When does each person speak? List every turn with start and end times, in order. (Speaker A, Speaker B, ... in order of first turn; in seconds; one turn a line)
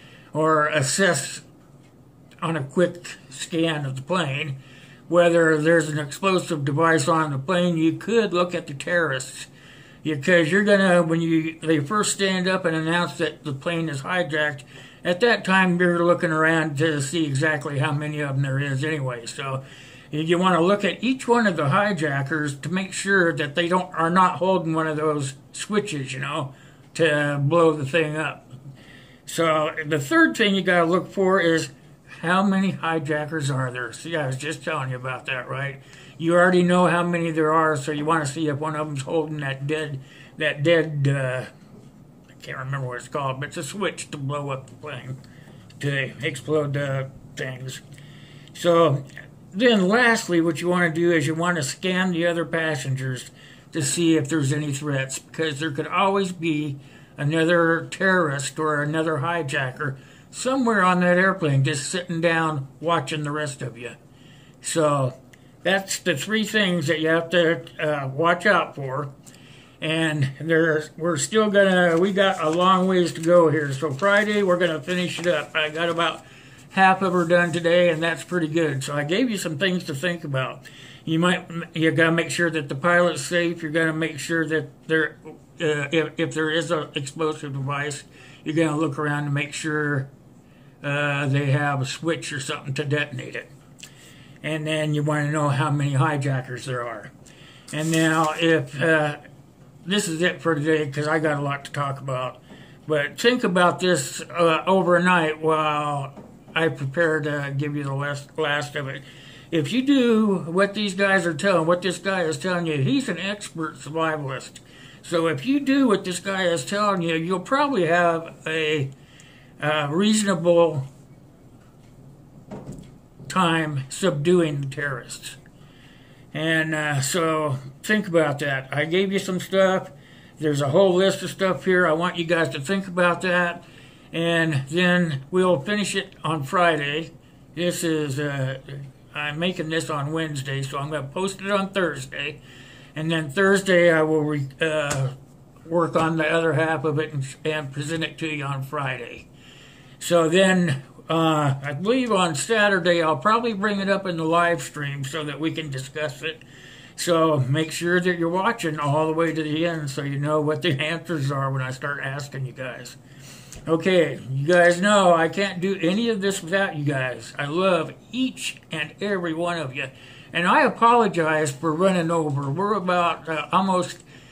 Speaker A: 0.3-1.4
Speaker A: 2.4-4.6
Speaker A: 5.1-9.5
Speaker A: 10.0-28.5
Speaker A: 29.2-41.5
Speaker A: 42.3-45.2
Speaker A: 45.8-47.8
Speaker A: 48.5-64.0
Speaker A: 64.6-69.1
Speaker A: 69.8-90.1
Speaker A: 90.8-93.5
Speaker A: 94.4-97.1
Speaker A: 97.7-99.2
Speaker A: 99.8-118.9
Speaker A: 119.6-120.9
Speaker A: 123.3-125.4
Speaker A: 126.3-142.4
Speaker A: 142.9-149.3
Speaker A: 150.0-156.4
Speaker A: 157.0-163.0
Speaker A: 163.7-174.0